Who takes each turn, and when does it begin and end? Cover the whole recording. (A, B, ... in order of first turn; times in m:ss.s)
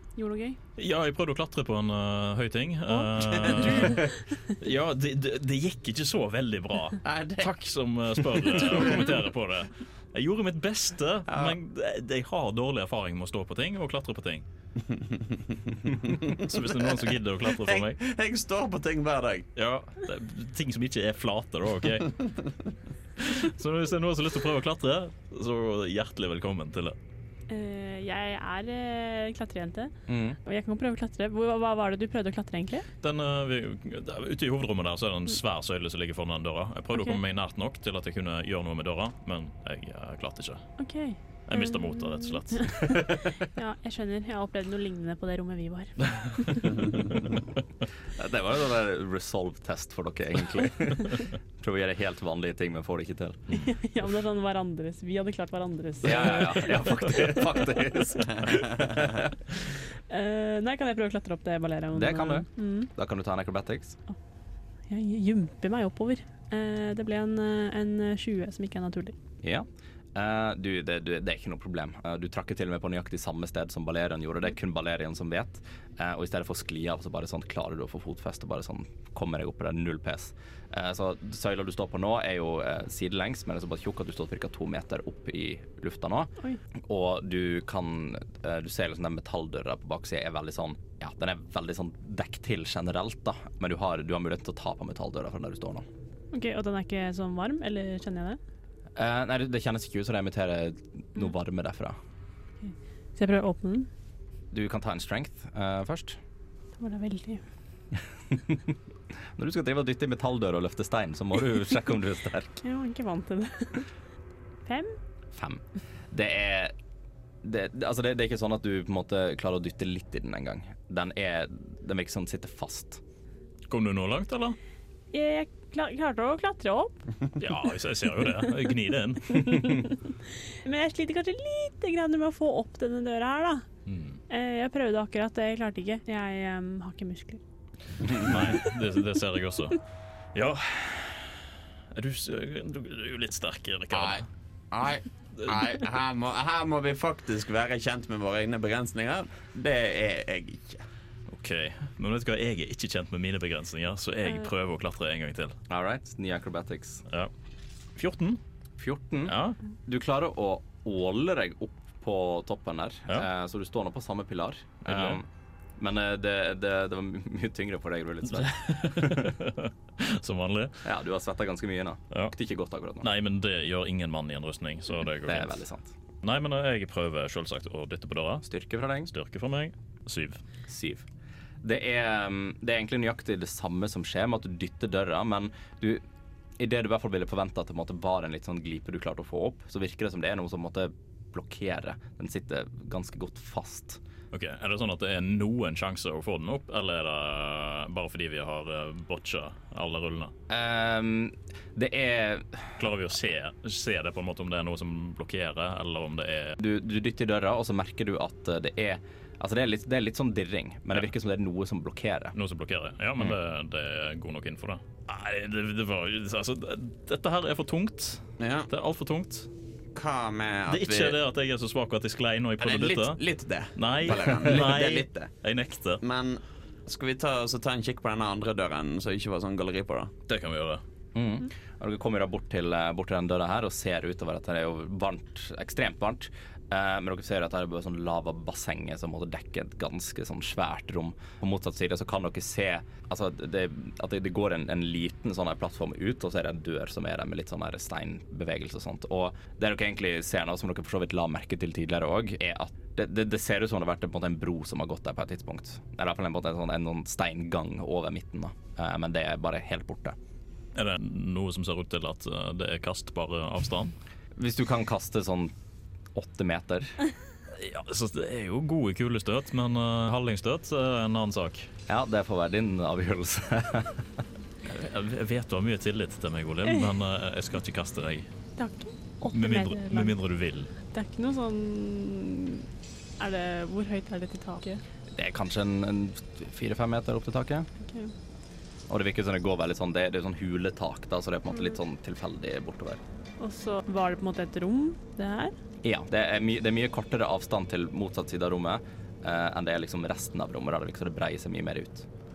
0:00.2-0:00.6 A
0:00.8-0:14.4 B
0:03.2-0:04.1 C
0:07.0-0:07.5 C
0:08.3-0:09.1 C
0:11.3-0:11.6 C
0:14.9-0:19.5 C
0:16.1-0:18.0 B
0:19.6-0:22.4 B
0:23.2-0:27.0 B
0:27.5-0:29.9 A
0:30.1-0:30.4 D
0:30.4-0:32.8 A
0:33.0-0:40.7 B
0:40.8-0:46.8 A
0:41.5-0:43.0 B
0:48.2-0:53.6 D
0:53.5-0:57.6 A
0:56.0-0:59.3 D
1:00.1-1:02.9 A
1:01.9-1:04.0 D
1:04.9-1:09.1 A
1:09.4-1:26.3 D
1:26.8-1:35.8 D
1:36.3-1:38.4 A
1:39.0-1:42.0 D
1:42.6-1:43.9 A
1:44.5-1:46.2 D
1:46.8-1:47.4 A
1:48.3-1:48.7 D
1:49.4-1:52.6 D
1:52.6-1:53.8 A
1:54.6-1:55.0 A
1:55.3-1:56.7 D
1:57.4-2:03.0 D
2:03.7-2:04.6 B
2:05.1-2:07.0 A
2:07.4-2:09.7 B
2:09.3-2:13.6 A
2:13.9-2:14.2 B
2:14.3-2:17.4 A
2:18.0-2:18.3 C
2:18.1-2:19.8 B
2:18.3-2:18.7 A
2:20.3-2:24.3 B
2:23.9-2:30.8 C
2:31.3-2:35.6 B
2:35.7-2:37.0 D
2:38.0-2:38.4 B
2:38.8-2:45.2 D
2:39.2-2:39.6 B
2:44.8-2:45.2 B
2:45.8-2:49.3 D
2:48.5-2:50.8 B
2:50.8-2:53.1 D
2:53.0-2:55.6 B
2:55.2-2:55.9 D
2:56.2-2:58.5 B
2:58.4-2:59.1 D
2:59.1-3:00.4 B
3:00.7-3:01.0 D
3:01.6-3:06.0 D
3:06.6-3:14.0 D
3:14.3-3:20.3 B
3:20.5-3:22.8 D
3:22.8-3:26.6 B
3:26.6-3:32.3 D
3:32.3-3:39.5 B
3:38.4-3:38.7 C
3:39.9-3:41.2 C
3:40.7-3:43.2 B
3:42.6-3:45.3 C
3:43.8-3:46.0 B
3:46.0-3:50.1 C
3:50.3-3:50.8 B
3:51.1-4:20.2 D
4:20.7-4:23.9 B
4:24.3-4:25.5 D
4:26.1-4:27.0 D
4:27.5-4:31.7 B
4:31.9-4:34.0 D
4:34.6-4:38.3 B
4:38.6-4:40.1 A
4:39.3-4:40.7 B
4:40.9-4:42.6 A
4:43.2-4:44.8 A
4:45.1-4:47.7 D
4:47.8-4:48.1 A
4:48.9-4:53.0 D
4:53.4-4:55.5 A
4:55.8-5:02.1 D